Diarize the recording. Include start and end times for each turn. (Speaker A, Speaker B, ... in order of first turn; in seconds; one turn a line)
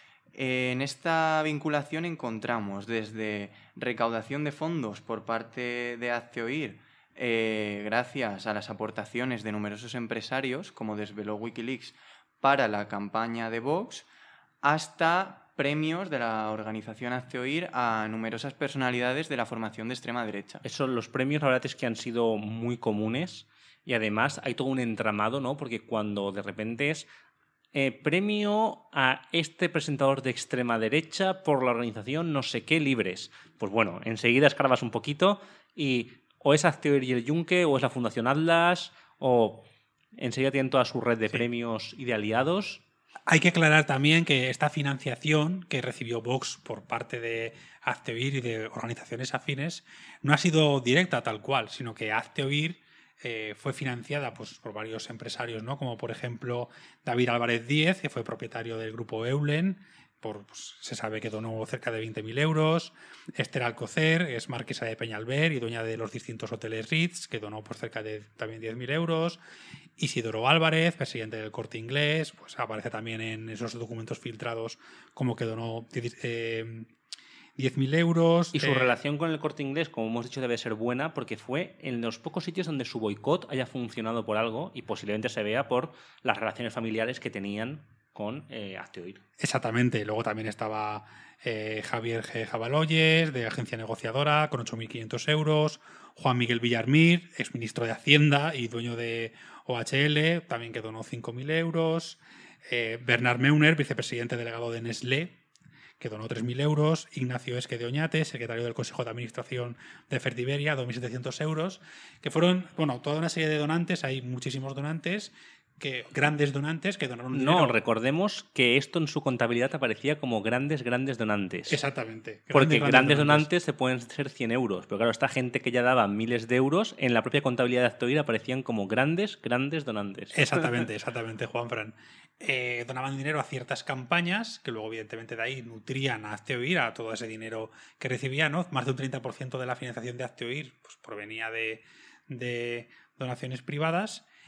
Speaker A: 0.4-14.1
Speaker A: 14.6-20.6
Speaker B: 20.6-27.1
Speaker B: 27.7-39.7
Speaker B: 40.2-42.8
Speaker C: 43.3-69.4
Speaker C: 70.0-76.9
Speaker C: 77.6-79.0
Speaker B: 78.5-89.2
Speaker C: 89.4-105.4
Speaker C: 106.0-117.8
Speaker B: 117.3-121.8
Speaker C: 121.7-123.5
Speaker B: 122.5-130.7
Speaker C: 130.3-144.3